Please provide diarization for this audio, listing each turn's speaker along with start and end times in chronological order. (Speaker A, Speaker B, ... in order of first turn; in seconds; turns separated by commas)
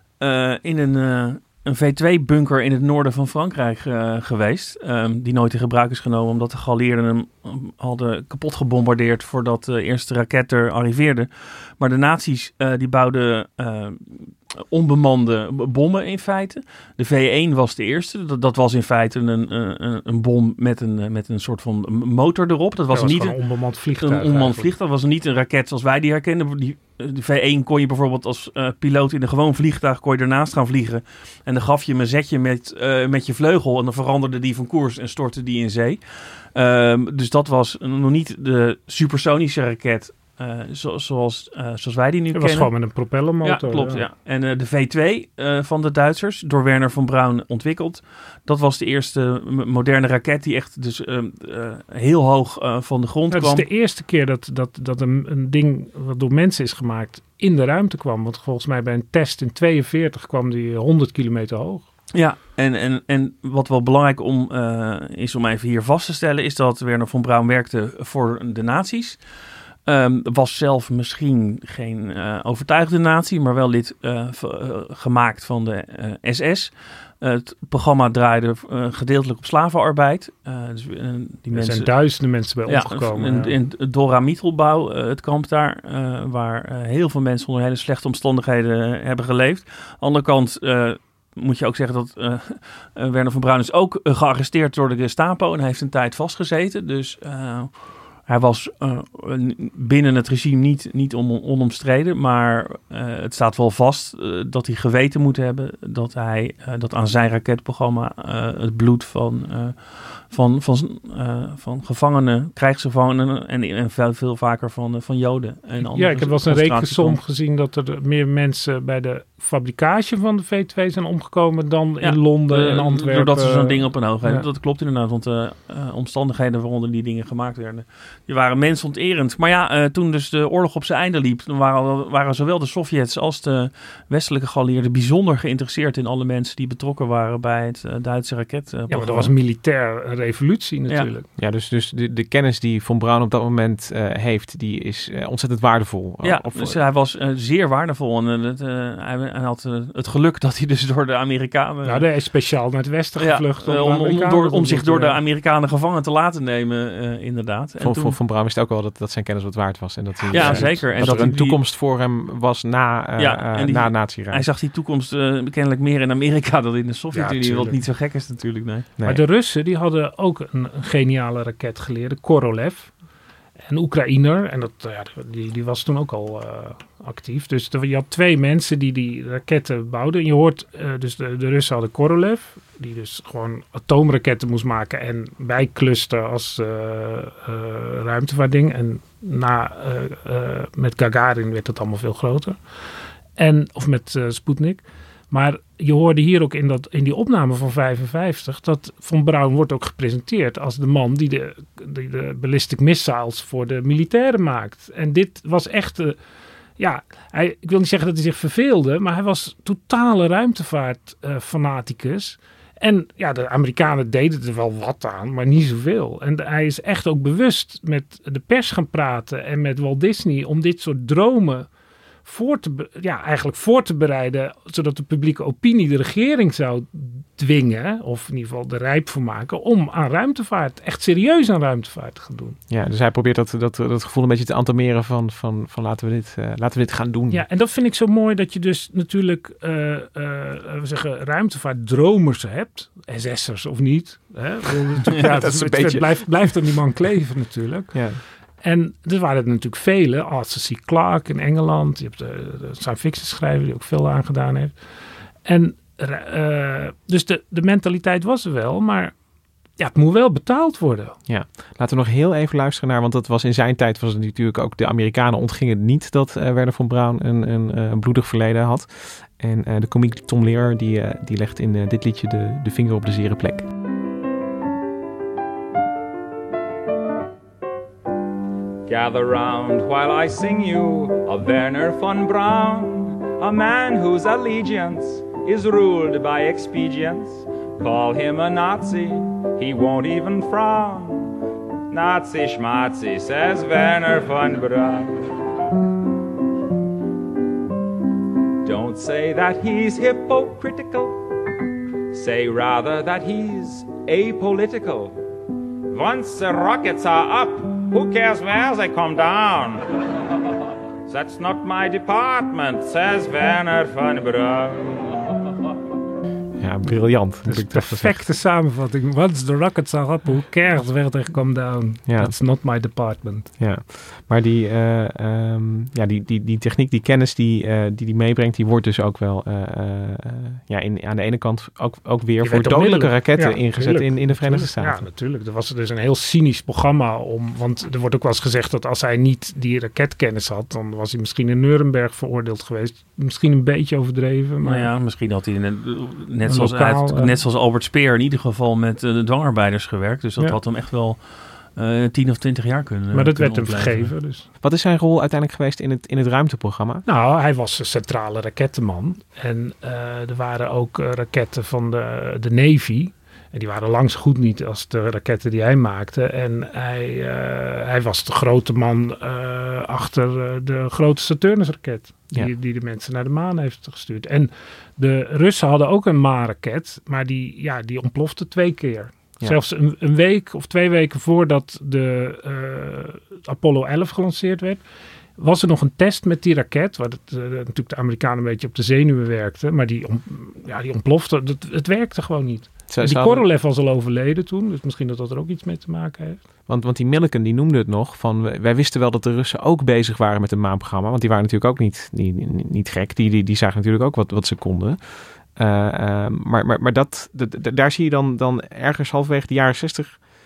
Speaker A: 0.2-23.4, Speaker B: 22.9-24.7, Speaker A: 24.0-42.7, Speaker B: 42.3-44.0, Speaker A: 43.4-53.6, Speaker B: 53.3-61.8, Speaker A: 62.1-69.2, Speaker A: 69.8-81.9, Speaker B: 81.5-83.5, Speaker A: 82.7-117.2, Speaker B: 115.8-124.4, Speaker A: 122.0-139.3, Speaker B: 138.9-141.2, Speaker C: 141.4-146.8, Speaker A: 146.2-152.1, Speaker B: 151.8-155.2, Speaker A: 153.2-158.2, Speaker C: 157.8-164.4, Speaker B: 160.2-161.2, Speaker A: 160.3-161.6, Speaker A: 163.2-168.9, Speaker B: 167.1-167.8, Speaker C: 169.0-169.2, Speaker B: 169.0-172.9, Speaker B: 173.7-192.6, Speaker B: 193.4-206.2, Speaker B: 206.8-221.7, Speaker B: 222.2-232.6, Speaker C: 232.7-237.4, Speaker B: 237.3-248.0, Speaker C: 245.2-246.5, Speaker C: 247.9-248.2, Speaker B: 248.6-254.8, Speaker B: 255.4-259.1, Speaker B: 259.8-261.2, Speaker C: 261.3-273.6, Speaker D: 278.9-291.3, Speaker D: 291.9-295.2, Speaker D: 298.6-301.2, Speaker D: 302.1-305.1, Speaker D: 305.9-309.8, Speaker D: 311.1-315.2, Speaker C: 316.6-318.2, Speaker B: 317.5-323.5, Speaker C: 322.1-322.3, Speaker C: 323.6-335.0, Speaker B: 332.4-344.9, Speaker A: 344.6-354.1, Speaker B: 346.5-347.3, Speaker B: 353.1-354.4, Speaker C: 354.6-357.0, Speaker B: 357.1-384.8, Speaker B: 385.4-396.4, Speaker C: 392.9-393.5, Speaker C: 396.7-410.2